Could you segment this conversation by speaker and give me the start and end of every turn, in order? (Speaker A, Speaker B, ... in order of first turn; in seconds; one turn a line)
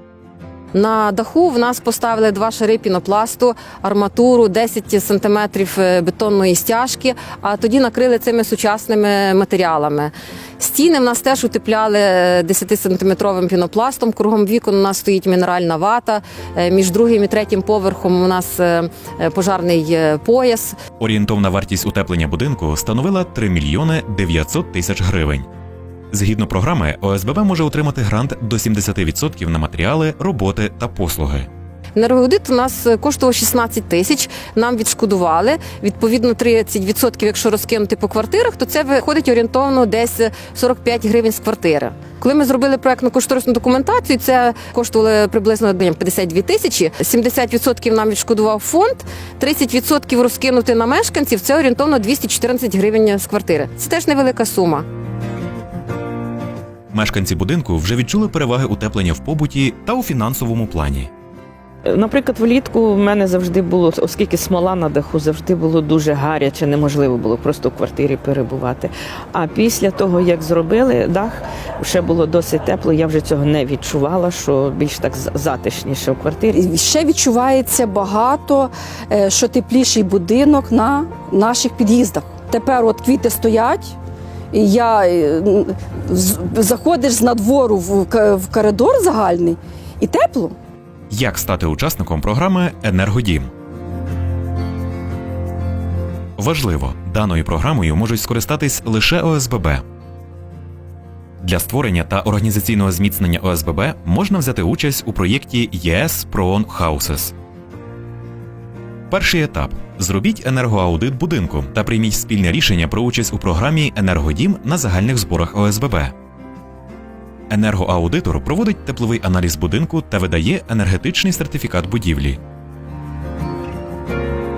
Speaker A: 0.7-20.8
Speaker B: 21.0-25.5
Speaker B: 26.1-31.5
Speaker A: 31.9-54.9
Speaker B: 56.9-61.1
Speaker C: 61.9-76.7
Speaker D: 76.7-83.8
Speaker D: 84.6-89.5
Speaker D: 90.0-90.5
Speaker B: 91.1-93.5
Speaker B: 96.4-99.8
Speaker B: 101.4-107.3
Speaker B: 109.1-116.1
Speaker B: 117.5-122.4